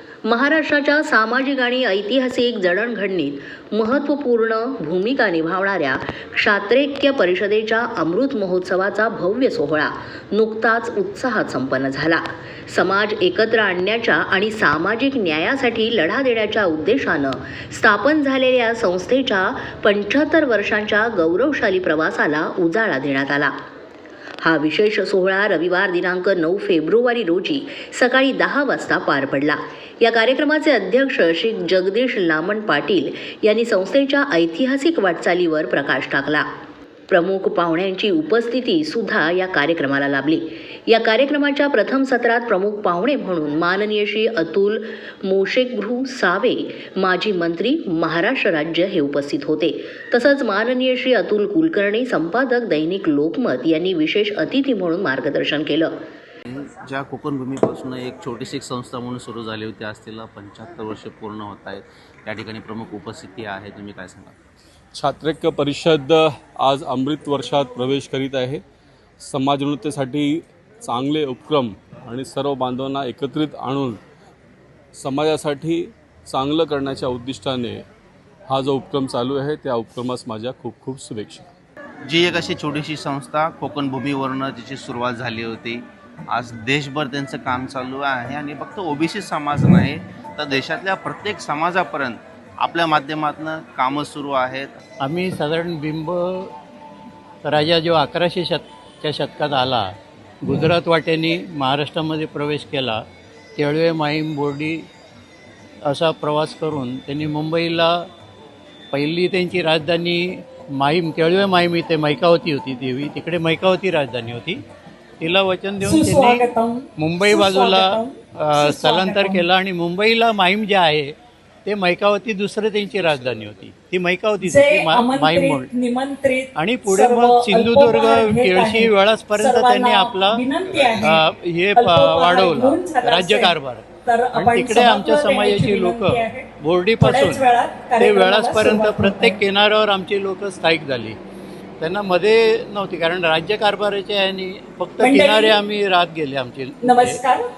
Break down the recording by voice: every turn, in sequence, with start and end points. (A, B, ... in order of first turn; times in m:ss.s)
0:00.3-0:23.5 A
0:24.4-0:36.5 A
0:37.1-0:55.9 A
0:56.5-1:04.4 B
1:04.9-1:08.6 C
1:09.2-1:14.0 C
1:14.9-1:17.8 C
1:18.5-1:21.5 C
1:22.1-1:34.8 B
1:35.0-1:36.5 D
1:37.4-1:39.9 D
1:40.4-1:43.0 D
1:43.6-1:44.9 D
1:45.8-1:48.1 D
1:48.9-1:54.6 D
1:55.2-1:56.5 D
1:55.8-1:59.4 E
1:57.0-2:01.1 D
2:01.7-2:05.7 D
2:04.4-2:19.4 E
2:06.6-2:17.4 D
2:18.0-2:21.2 D
2:21.8-2:27.2 D
2:25.0-2:25.6 E
2:26.8-2:27.5 E